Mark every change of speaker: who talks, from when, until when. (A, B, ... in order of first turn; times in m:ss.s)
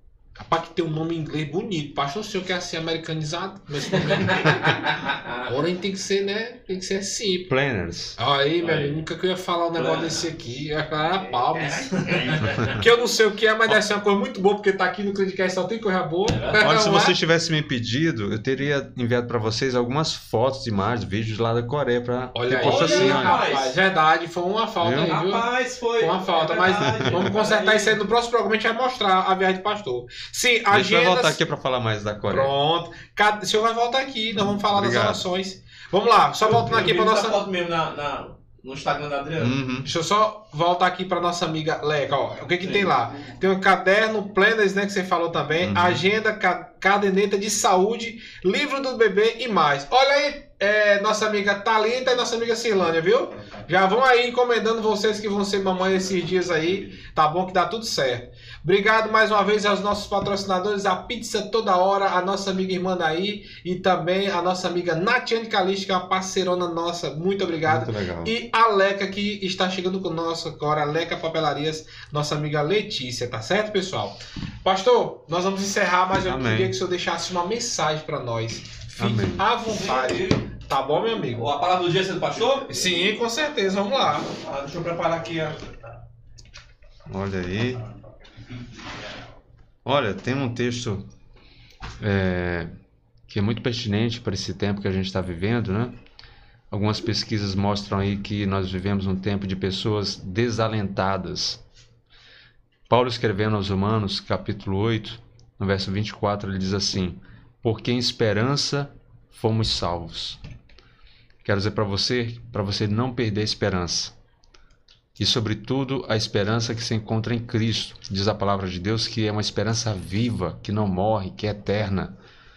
0:00.4-0:04.9 A
0:04.0-0:05.5 B
0:05.4-0:07.5 A
0:07.5-0:08.2 C
0:08.2-0:17.1 A
0:08.6-0:09.0 B
0:09.7-0:10.4 B
0:11.0-0:12.8 B
0:12.4-0:12.8 C
0:16.2-0:16.6 B
0:16.6-0:23.4 C
0:22.3-0:31.4 A
0:22.6-0:23.8 B
0:24.8-0:25.1 C
0:25.0-0:28.0 B
0:26.8-0:27.3 C
0:30.7-0:32.5 C
0:32.3-0:37.4 A
0:34.7-0:35.2 C
0:36.4-0:39.6 B
0:39.4-0:39.9 C
0:39.8-1:21.5 A
0:45.6-0:46.0 C
1:07.6-1:08.3 C
1:16.2-1:16.8 C
1:19.0-1:19.4 C
1:19.7-1:20.4 B
1:21.2-1:23.1 B
1:22.4-1:24.3 A
1:24.3-1:25.6 B
1:27.1-1:27.8 C
1:29.8-1:31.1 C
1:32.0-1:32.7 C
1:33.3-1:35.9 C
1:36.7-1:41.6 C
1:42.9-1:50.4 C
1:51.4-1:54.1 C
1:55.2-2:02.1 C